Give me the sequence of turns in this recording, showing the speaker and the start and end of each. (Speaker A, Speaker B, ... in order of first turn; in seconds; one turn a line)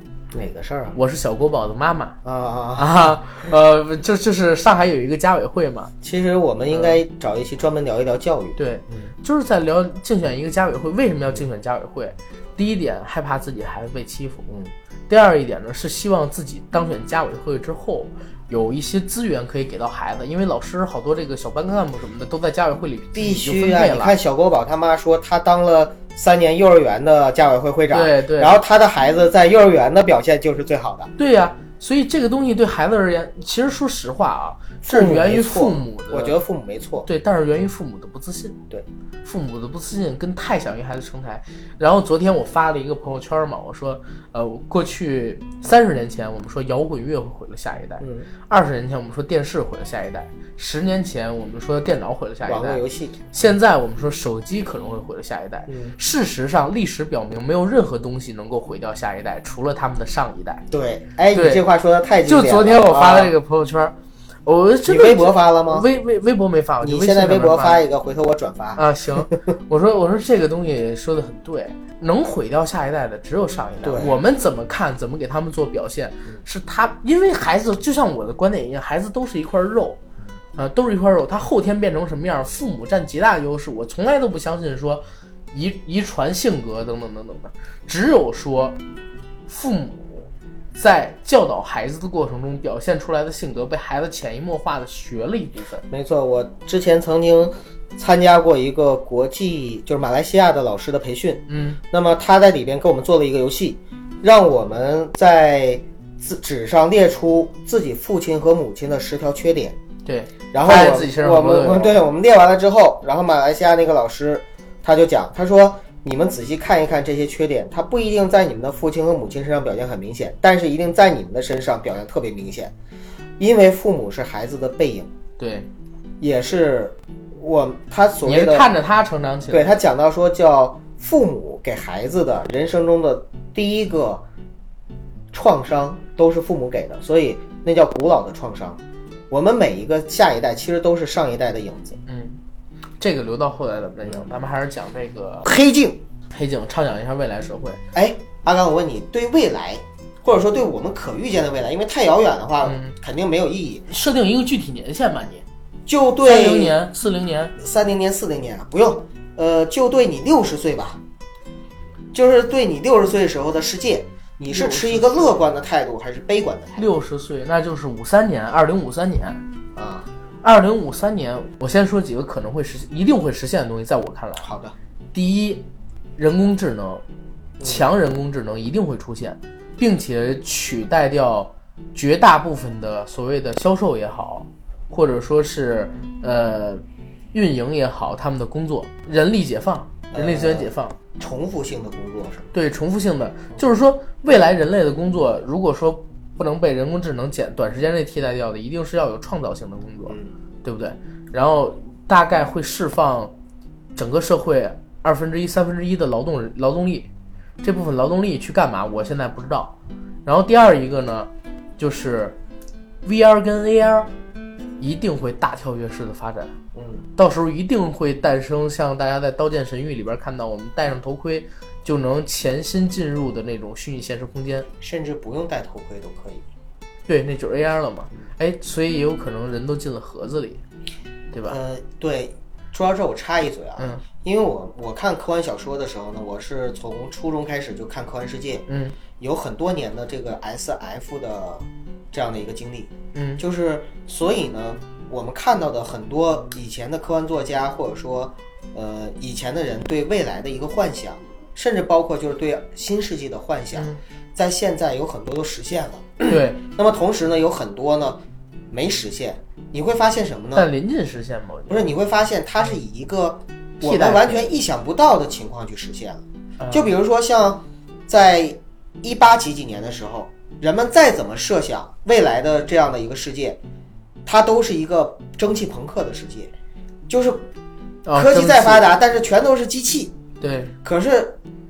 Speaker A: 0.3-1.0
Speaker B: 0.9-2.2
Speaker A: 2.2-2.9
Speaker B: 2.8-5.9
Speaker A: 6.0-9.1
Speaker B: 6.7-7.0
Speaker B: 8.6-14.4
Speaker A: 14.5-14.7
Speaker B: 15.1-24.1
Speaker A: 23.1-31.1
Speaker B: 27.9-28.6
Speaker B: 31.2-36.4
Speaker A: 34.8-37.1
Speaker B: 37.0-38.5
Speaker B: 39.2-60.6
Speaker A: 48.0-48.3
Speaker A: 52.4-53.3
Speaker A: 55.7-56.0
Speaker A: 60.7-63.3
Speaker B: 61.3-61.6
Speaker B: 62.2-63.9
Speaker B: 64.5-67.8
Speaker A: 64.9-65.9
Speaker A: 66.8-69.3
Speaker B: 68.8-80.0
Speaker A: 73.8-74.2
Speaker B: 80.5-88.8
Speaker B: 89.5-95.8
Speaker A: 95.9-109.8
Speaker B: 101.5-101.8
Speaker B: 110.0-112.0
Speaker A: 110.5-122.7
Speaker A: 123.4-125.1
Speaker B: 125.4-125.7
Speaker A: 126.2-128.7
Speaker B: 128.2-129.8
Speaker A: 129.5-134.2
Speaker A: 135.3-142.0
Speaker B: 142.1-142.4
Speaker B: 143.0-145.5
Speaker A: 145.4-146.0
Speaker B: 146.3-147.8
Speaker A: 147.9-153.9
Speaker B: 152.6-152.9
Speaker B: 153.9-155.4
Speaker A: 155.8-156.8
Speaker B: 156.2-157.5
Speaker A: 157.6-161.0
Speaker A: 162.1-166.8
Speaker B: 164.5-165.4
Speaker B: 166.8-169.4
Speaker A: 169.7-170.1
Speaker B: 170.4-174.4
Speaker A: 174.4-174.7
Speaker B: 175.1-177.0
Speaker A: 177.6-177.8
Speaker B: 177.6-190.9
Speaker A: 190.1-192.5
Speaker B: 192.5-203.3
Speaker A: 200.1-200.3
Speaker B: 203.9-207.1
Speaker B: 207.6-212.4
Speaker B: 213.0-214.1
Speaker B: 214.8-216.5
Speaker A: 216.7-217.0
Speaker B: 217.2-224.7
Speaker A: 224.8-226.5
Speaker B: 227.1-230.6
Speaker B: 231.3-231.6
Speaker A: 231.5-238.6
Speaker B: 233.8-234.0
Speaker B: 238.7-239.0
Speaker A: 239.2-260.7
Speaker B: 243.1-243.4
Speaker B: 256.2-256.6
Speaker B: 260.5-261.9
Speaker A: 261.7-273.6
Speaker B: 263.8-264.5
Speaker B: 266.6-266.9
Speaker A: 274.2-276.5
Speaker A: 277.1-277.5
Speaker B: 278.1-278.9
Speaker A: 278.1-280.1
Speaker B: 280.4-280.7
Speaker A: 280.8-281.4